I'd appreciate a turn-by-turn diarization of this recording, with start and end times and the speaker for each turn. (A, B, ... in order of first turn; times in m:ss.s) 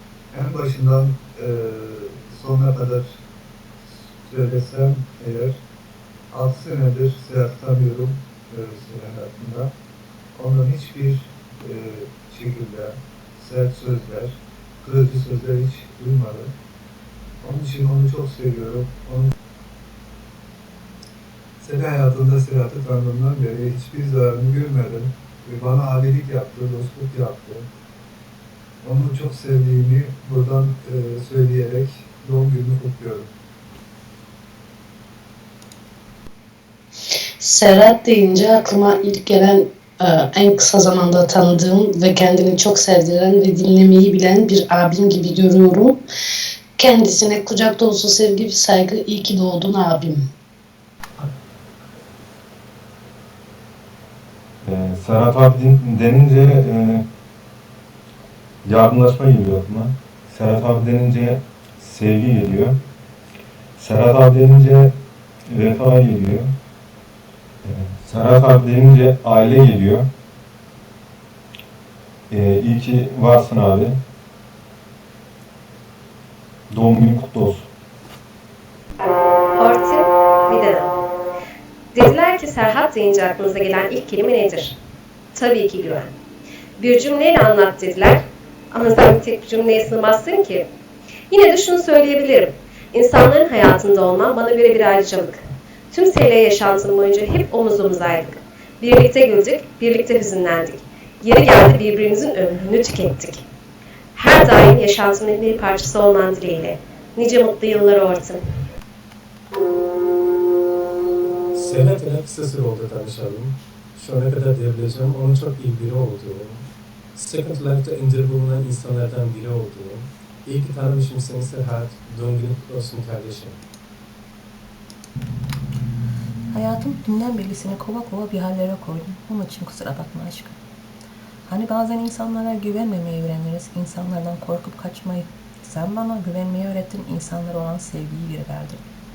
0:00.3-0:03.2 A
0:03.8-0:05.6 A
0:06.3-0:09.7 A
0:10.4-0:16.5 A
0:17.4-0:19.3 A
0:21.6-0:27.7 A
0:28.8-0:33.3 A
0:37.4-0:46.0 B
0:46.8-0:50.2 B
0:54.6-0:57.1 C
0:58.6-1:02.8 C
1:03.8-1:04.9 C
1:05.5-1:06.5 C
1:07.6-1:10.1 C
1:12.3-1:14.0 C
1:16.7-1:17.7 C
1:19.6-1:21.0 D
1:21.9-1:24.8 D
1:25.3-1:26.1 D
1:26.8-1:30.7 D
1:31.3-1:43.5 D
1:44.2-1:48.4 D
1:51.5-2:03.6 E
2:06.5-2:10.6 F
2:11.5-2:18.8 F